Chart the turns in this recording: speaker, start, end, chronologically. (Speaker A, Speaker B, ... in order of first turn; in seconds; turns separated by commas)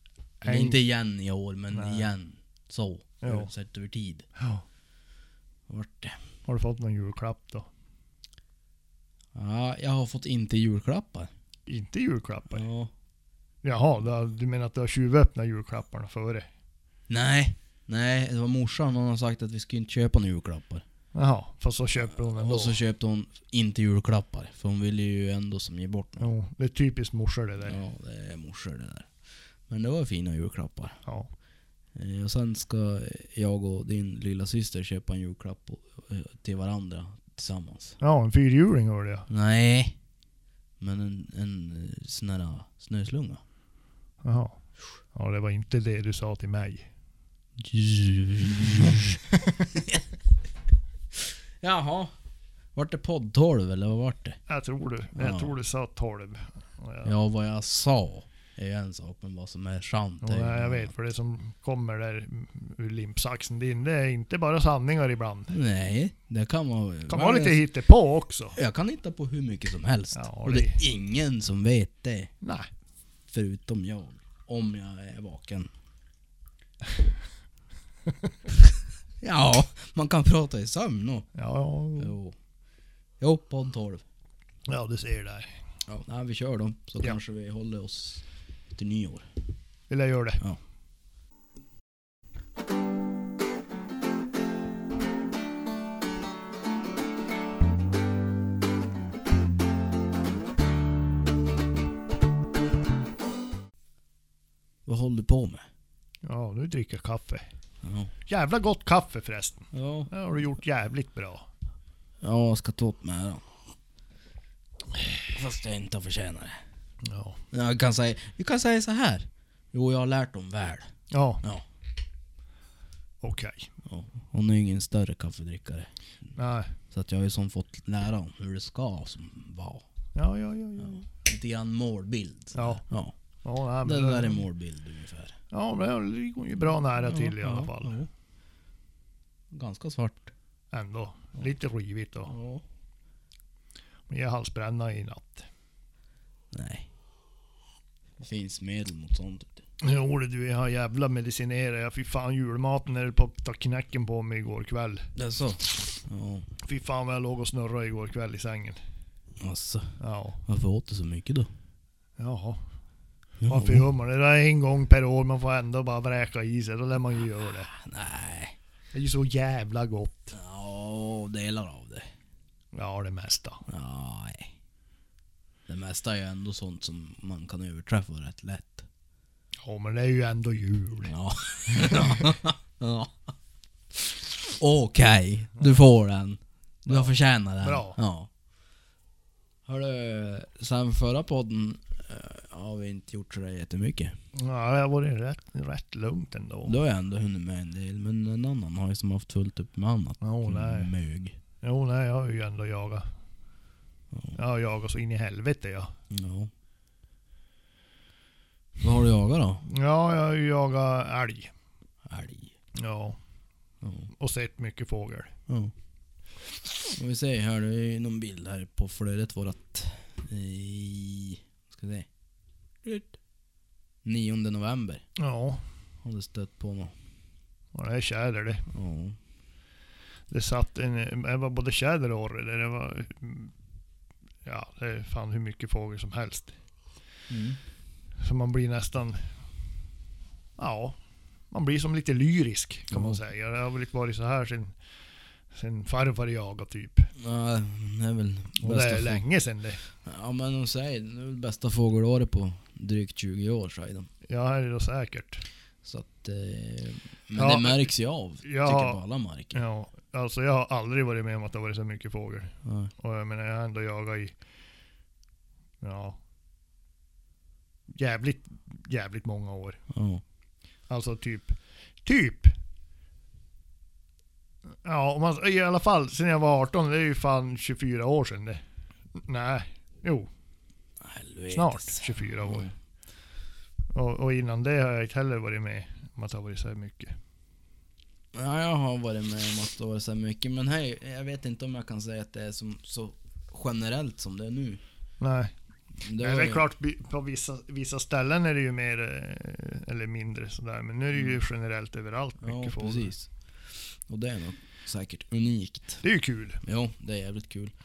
Speaker A: 0.4-4.3, Speaker B: 0.4-0.8, Speaker B: 1.7-2.0, Speaker B: 3.2-3.5, Speaker B: 4.4-4.6, Speaker A: 5.7-6.2, Speaker B: 6.5-7.7, Speaker A: 9.3-11.3, Speaker B: 11.7-12.7, Speaker A: 12.5-12.9, Speaker B: 13.6-16.5, Speaker A: 17.1-20.8, Speaker B: 21.1-22.8, Speaker A: 22.2-26.3, Speaker B: 26.2-27.8, Speaker A: 27.6-29.1, Speaker A: 29.7-31.0, Speaker A: 31.9-38.0, Speaker B: 38.0-39.3, Speaker A: 39.3-40.0, Speaker A: 40.8-43.4, Speaker B: 44.2-44.6, Speaker B: 45.1-46.9, Speaker A: 47.6-49.2, Speaker A: 49.7-50.0, Speaker A: 51.2-52.1, Speaker A: 52.7-54.4, Speaker B: 54.5-57.1, Speaker A: 55.1-55.5, Speaker A: 57.0-60.9, Speaker B: 60.2-65.5, Speaker A: 65.5-67.6, Speaker B: 67.1-68.6, Speaker A: 68.5-72.3, Speaker B: 70.1-70.8, Speaker B: 72.4-72.7, Speaker A: 73.3-75.7, Speaker A: 79.2-81.3, Speaker B: 81.3-82.1, Speaker A: 82.0-82.3, Speaker A: 83.2-84.0, Speaker B: 84.7-85.5, Speaker A: 85.9-89.3, Speaker B: 89.9-90.4, Speaker A: 104.8-105.7, Speaker B: 106.2-107.4, Speaker A: 107.8-108.1, Speaker B: 108.3-111.5, Speaker A: 109.7-110.1, Speaker A: 112.2-113.4, Speaker A: 115.2-116.6, Speaker B: 117.0-117.4, Speaker A: 117.5-121.6, Speaker B: 121.1-121.4, Speaker B: 123.2-123.7, Speaker A: 123.8-125.9, Speaker B: 126.3-126.7, Speaker A: 126.9-129.8, Speaker B: 130.1-131.0, Speaker A: 130.8-133.1, Speaker B: 132.5-132.8, Speaker B: 133.4-134.4, Speaker A: 133.8-135.4, Speaker B: 135.5-137.9, Speaker A: 136.9-138.1, Speaker A: 139.5-140.3, Speaker B: 140.7-142.3, Speaker A: 142.2-142.6, Speaker B: 144.1-145.5, Speaker A: 146.5-146.9, Speaker A: 148.2-149.6, Speaker B: 149.8-155.1, Speaker A: 155.1-156.5, Speaker B: 156.6-158.8, Speaker A: 159.4-161.5, Speaker B: 160.0-160.4, Speaker B: 162.2-162.6, Speaker A: 163.4-163.9, Speaker B: 163.5-167.7, Speaker A: 167.6-168.6, Speaker B: 168.9-170.3, Speaker A: 170.3-172.1, Speaker B: 172.7-173.6, Speaker A: 173.7-174.5, Speaker A: 175.7-178.8, Speaker B: 179.6-181.1, Speaker A: 181.0-183.1, Speaker A: 183.9-188.3, Speaker B: 186.9-188.0, Speaker A: 189.7-194.1, Speaker B: 194.3-196.8, Speaker A: 196.6-201.3, Speaker B: 200.2-200.9, Speaker B: 201.6-203.1, Speaker A: 204.1-204.4, Speaker B: 204.3-205.9, Speaker A: 206.1-206.5, Speaker A: 208.8-209.7, Speaker B: 209.7-211.5, Speaker A: 212.1-212.5, Speaker B: 212.7-213.2, Speaker A: 213.8-214.1, Speaker B: 214.1-215.3, Speaker A: 215.5-215.7, Speaker A: 216.8-222.1, Speaker A: 222.8-223.2, Speaker A: 224.0-225.0, Speaker B: 225.2-225.6, Speaker A: 226.0-226.9, Speaker B: 227.7-228.6, Speaker A: 228.7-229.2, Speaker B: 230.3-233.5, Speaker B: 234.4-236.5, Speaker A: 237.3-237.6, Speaker B: 238.2-239.3, Speaker B: 240.6-241.0, Speaker B: 241.5-244.8, Speaker A: 242.9-243.2, Speaker B: 245.5-247.1, Speaker A: 247.2-249.2, Speaker B: 248.6-249.8, Speaker A: 249.9-254.1, Speaker B: 254.2-255.4, Speaker A: 255.8-259.6, Speaker B: 257.4-257.9, Speaker B: 258.4-259.0, Speaker B: 259.5-264.4, Speaker A: 262.6-262.9, Speaker B: 265.8-266.2, Speaker B: 267.9-269.8, Speaker A: 269.9-270.2, Speaker B: 270.9-272.5, Speaker B: 274.8-278.6, Speaker B: 279.1-280.3, Speaker A: 281.0-282.7, Speaker B: 281.5-282.7, Speaker B: 283.9-287.2, Speaker A: 288.3-294.8, Speaker B: 295.2-295.5, Speaker A: 296.0-296.6, Speaker B: 296.2-303.1, Speaker A: 302.4-303.3, Speaker A: 304.1-306.0, Speaker B: 306.0-306.6, Speaker A: 306.6-307.7